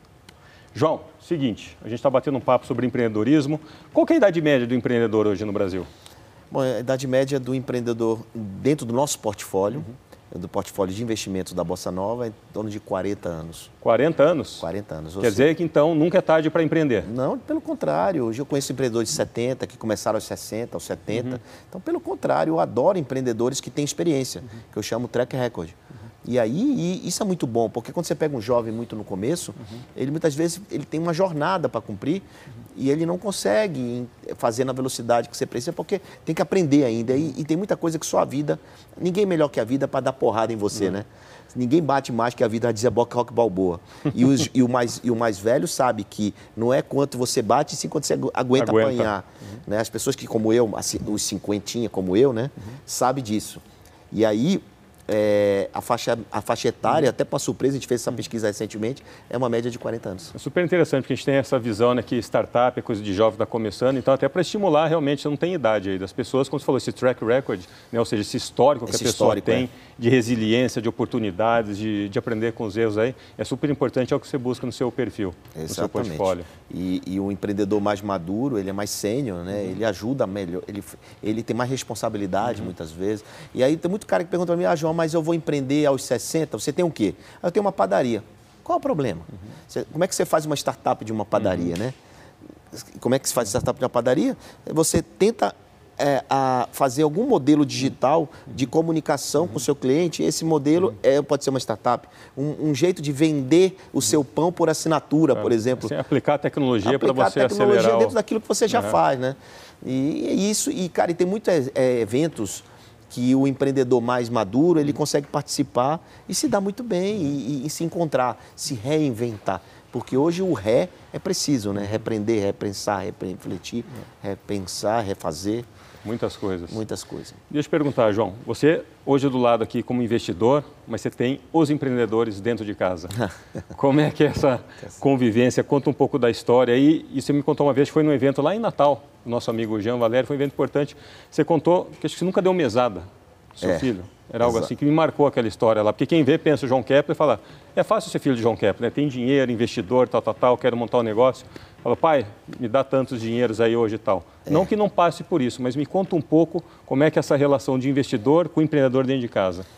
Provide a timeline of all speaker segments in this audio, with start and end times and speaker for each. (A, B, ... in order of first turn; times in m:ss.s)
0:00.7-0:05.9 A
0:06.5-0:13.7 B
0:13.8-0:14.6 A
0:14.6-0:15.5 B
0:15.2-0:17.1 A
0:17.0-1:00.3 B
0:48.5-0:49.1 A
1:00.3-1:16.5 A
1:08.9-1:09.7 B
1:15.6-1:32.0 B
1:32.7-1:45.9 B
1:45.4-1:48.2 A
1:46.8-2:05.7 B
1:48.7-1:49.0 A
2:06.0-2:06.8 A
2:06.7-2:07.4 B
2:07.5-2:39.7 A
2:24.4-2:24.7 B